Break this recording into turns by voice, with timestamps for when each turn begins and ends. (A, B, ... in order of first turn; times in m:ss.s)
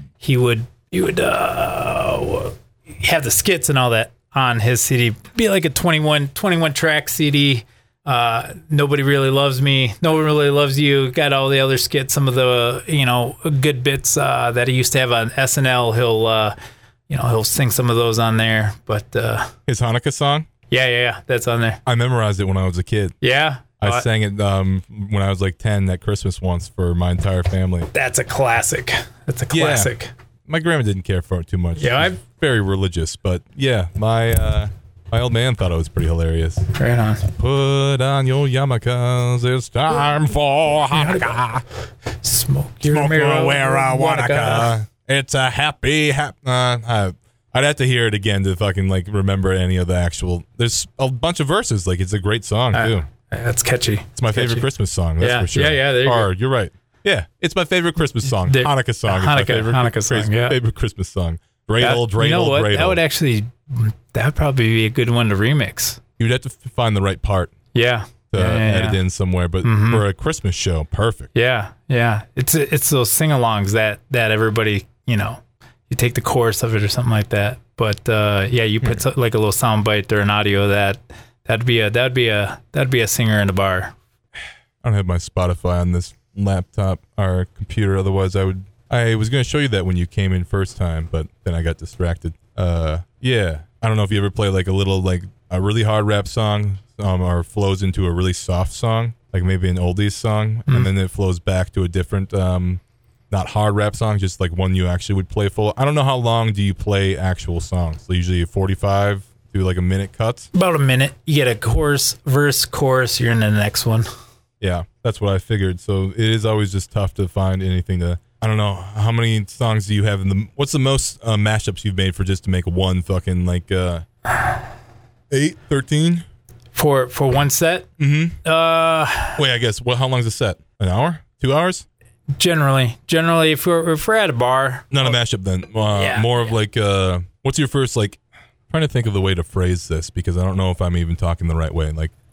0:00.2-0:16.5 A
0:17.1-0:19.5 A
0:19.7-0:20.4 B
0:20.7-0:21.8 A
0:21.8-0:23.2 B
0:23.2-0:24.0 A
0:23.8-0:27.9 B
0:27.9-0:30.1 A
0:29.5-0:29.9 B
0:30.5-0:36.6 B
0:31.8-0:32.2 A
0:36.7-0:37.2 A
0:37.3-0:41.6 B
0:40.9-0:41.4 A
0:42.2-0:44.7 A
0:42.8-0:53.0 B
0:52.7-0:54.6 A
0:54.2-1:03.0 B
0:55.2-0:56.3 A
0:58.4-1:00.6 A
1:01.8-1:06.0 A
1:06.2-1:07.5 B
1:07.7-1:09.0 A
1:08.3-1:11.3 B
1:09.6-1:10.0 A
1:11.3-1:23.9 A
1:24.8-1:42.8 B
1:43.3-1:50.5 B
1:50.5-1:54.1 A
1:54.6-2:04.0 B
2:05.3-2:06.2 B
2:06.7-2:07.9 A
2:08.0-2:08.4 B
2:08.4-2:09.4 A
2:09.4-2:11.8 B
2:12.4-2:15.2 A
2:14.9-2:18.2 B
2:15.9-2:16.5 A
2:18.7-2:22.1 B